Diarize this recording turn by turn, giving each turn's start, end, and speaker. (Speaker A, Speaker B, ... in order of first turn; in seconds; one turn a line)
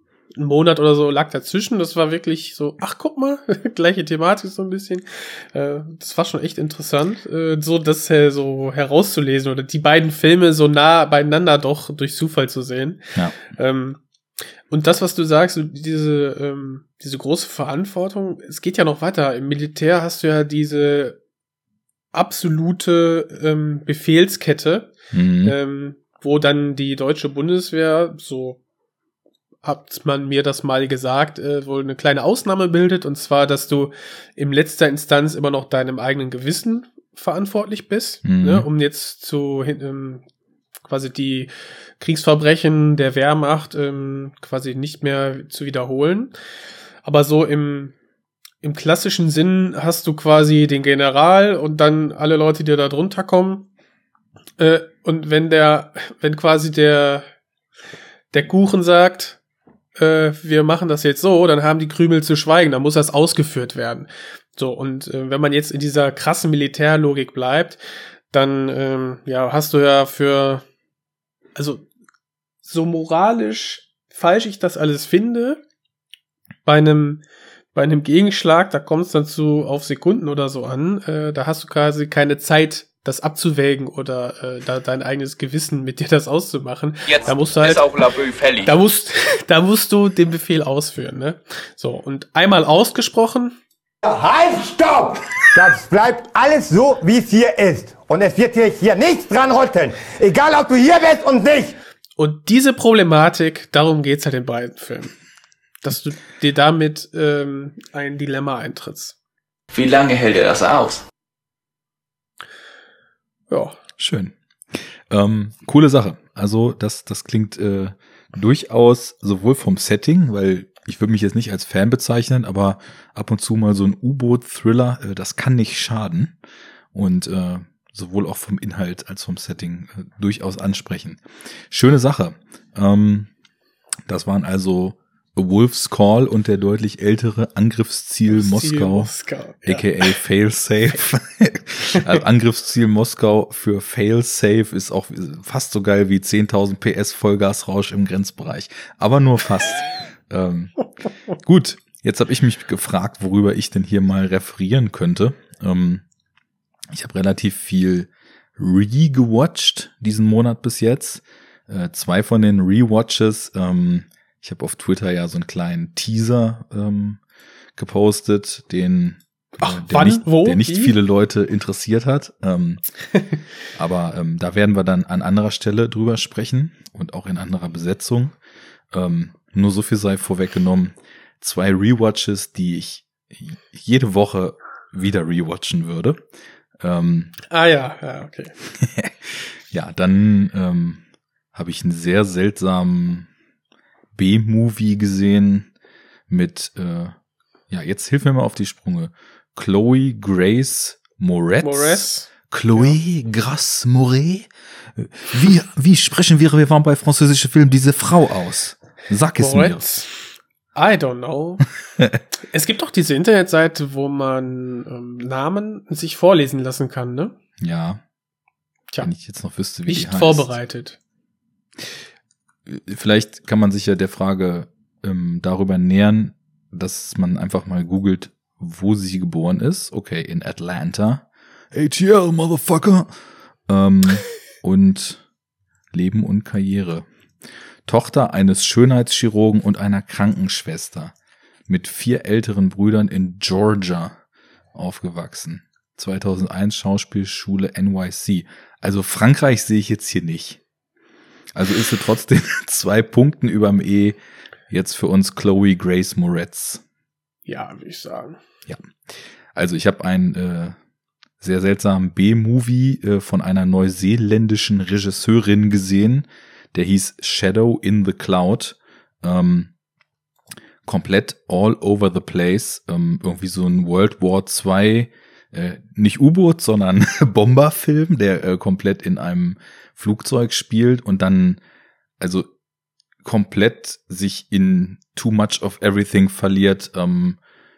Speaker A: 0.3-14.0
Speaker A: 14.7-21.2
Speaker A: 22.1-24.9
Speaker B: 25.1-25.6
Speaker A: 25.4-28.6
Speaker A: 29.6-40.2
Speaker B: 38.2-38.7
Speaker A: 40.9-46.4
Speaker A: 47.0-48.0
Speaker A: 48.6-53.7
Speaker A: 54.6-57.3
Speaker A: 58.3-59.4
Speaker A: 60.0-67.8
Speaker A: 68.3-70.7
Speaker A: 71.5-71.9
Speaker A: 72.7-75.6
Speaker A: 76.7-77.2
Speaker A: 77.7-87.9
Speaker C: 87.1-88.7
Speaker A: 88.6-93.6
Speaker D: 94.0-101.8
Speaker A: 102.2-105.1
Speaker A: 105.8-109.2
Speaker C: 109.7-111.0
Speaker A: 113.5-113.8
Speaker B: 114.0-114.3
Speaker B: 115.1-126.3
Speaker B: 126.9-131.2
Speaker B: 131.7-133.3
Speaker B: 134.1-139.1
Speaker A: 138.3-140.1
Speaker B: 139.7-150.8
Speaker B: 151.4-156.0
Speaker B: 156.9-167.2
Speaker B: 167.8-172.8
Speaker A: 169.6-171.0
Speaker B: 173.8-178.3
Speaker B: 178.9-186.2
Speaker B: 186.8-187.3
Speaker A: 187.5-188.5
Speaker B: 188.8-191.0
Speaker B: 191.5-193.3
Speaker B: 194.2-195.7
Speaker B: 196.3-197.2
Speaker B: 197.7-209.8
Speaker A: 201.6-203.0
Speaker A: 209.4-211.6
Speaker A: 212.5-217.4
Speaker B: 217.6-218.0
Speaker B: 219.0-220.5
Speaker A: 219.9-221.0
Speaker B: 222.7-233.1
Speaker B: 233.7-235.2
Speaker B: 235.9-237.1
Speaker B: 237.9-241.1
Speaker B: 241.7-244.2
Speaker B: 244.8-250.6
Speaker B: 251.6-254.2
Speaker B: 254.7-256.8
Speaker A: 257.5-258.4
Speaker B: 259.6-260.8
Speaker B: 261.4-269.7
Speaker B: 270.9-281.6
Speaker B: 282.2-282.5
Speaker B: 283.2-287.4